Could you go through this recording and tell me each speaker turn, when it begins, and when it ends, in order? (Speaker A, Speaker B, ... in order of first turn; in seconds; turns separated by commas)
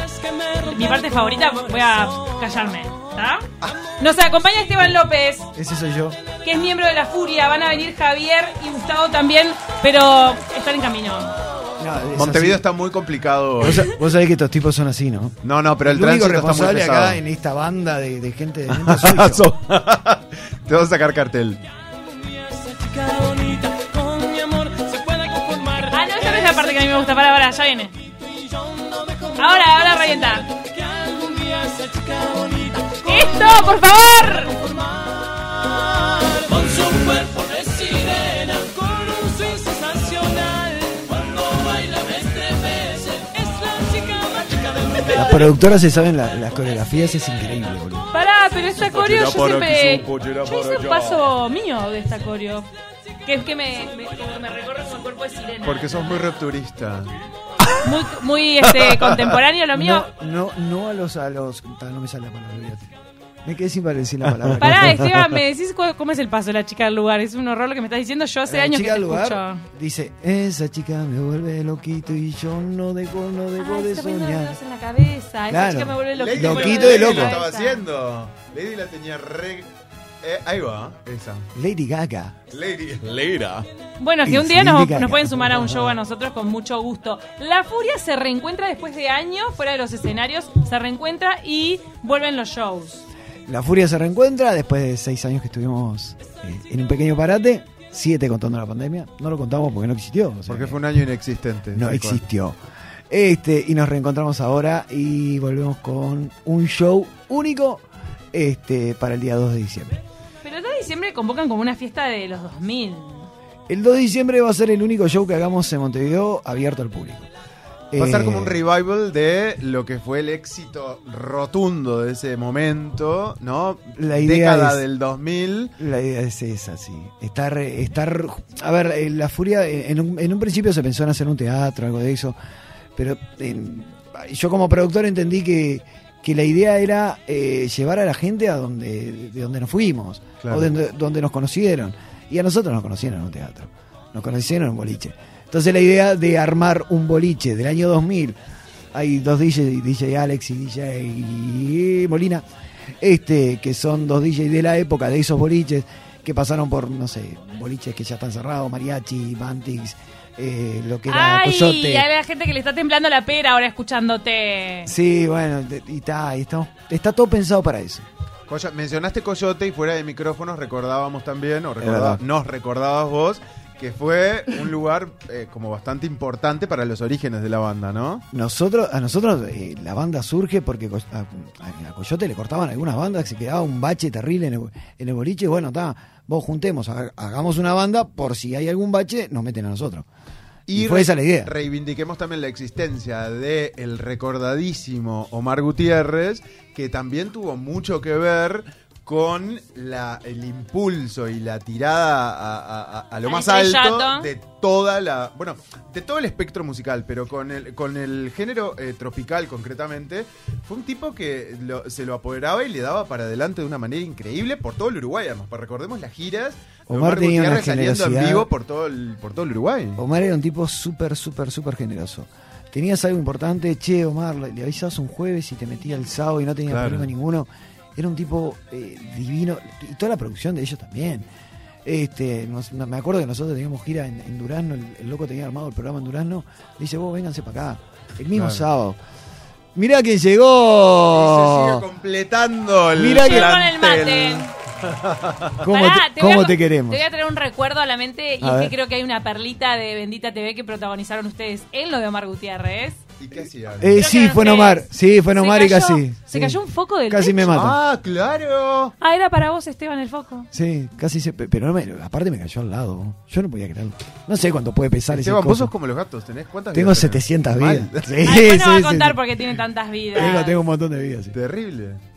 Speaker A: 0.4-3.5, Speaker A: 4.0-5.5, Speaker B: 5.5-6.2, Speaker A: 6.4-11.3, Speaker B: 11.8-12.6, Speaker C: 12.1-13.9, Speaker B: 13.6-19.4, Speaker C: 15.4-17.2, Speaker C: 18.7-21.6, Speaker A: 25.7-27.9, Speaker A: 29.3-30.5, Speaker A: 32.5-34.6, Speaker A: 36.7-41.2, Speaker A: 41.9-45.2, Speaker B: 45.1-48.1, Speaker A: 48.1-52.7, Speaker C: 48.8-51.3, Speaker A: 53.2-56.1, Speaker C: 55.6-57.1, Speaker A: 57.8-60.1, Speaker B: 59.7-62.9, Speaker B: 63.4-65.1, Speaker A: 64.6-69.6, Speaker B: 68.5-74.6, Speaker A: 73.6-77.8, Speaker B: 75.5-77.4, Speaker C: 76.2-79.7, Speaker C: 80.2-81.5, Speaker B: 81.5-82.3, Speaker C: 82.5-83.7, Speaker A: 84.0-93.0, Speaker B: 84.2-86.0, Speaker B: 93.5-100.8, Speaker C: 100.5-102.2, Speaker B: 101.7-102.6, Speaker B: 103.1-110.0, Speaker A: 110.4-113.3, Speaker B: 113.7-117.3, Speaker B: 117.9-118.6, Speaker C: 118.0-125.7, Speaker B: 124.0-124.8, Speaker B: 125.8-132.4, Speaker B: 132.9-148.3, Speaker C: 140.4-140.7, Speaker B: 148.9-152.4, Speaker B: 153.0-162.1, Speaker A: 161.1-164.9, Speaker B: 164.8-168.0, Speaker C: 168.5-178.2, Speaker B: 171.8-172.2, Speaker B: 178.3-190.1, Speaker C: 190.7-220.0, Speaker B: 190.7-191.5, Speaker A: 203.2-204.3, Speaker B: 216.9-218.5, Speaker B: 219.9-231.2, Speaker C: 226.7-227.1, Speaker B: 231.8-239.0, Speaker C: 238.3-238.6, Speaker B: 239.7-241.8, Speaker C: 241.1-245.5, Speaker B: 242.9-243.5, Speaker A: 243.1-244.5, Speaker B: 245.6-247.0, Speaker A: 245.6-253.0, Speaker B: 248.4-248.7, Speaker C: 253.2-254.0, Speaker B: 253.8-257.8, Speaker A: 253.9-257.7, Speaker C: 257.5-258.9, Speaker A: 259.0-260.5, Speaker B: 260.5-265.7, Speaker C: 265.1-268.1, Speaker B: 266.7-269.2, Speaker A: 268.2-270.6, Speaker B: 270.1-271.4, Speaker C: 271.3-272.0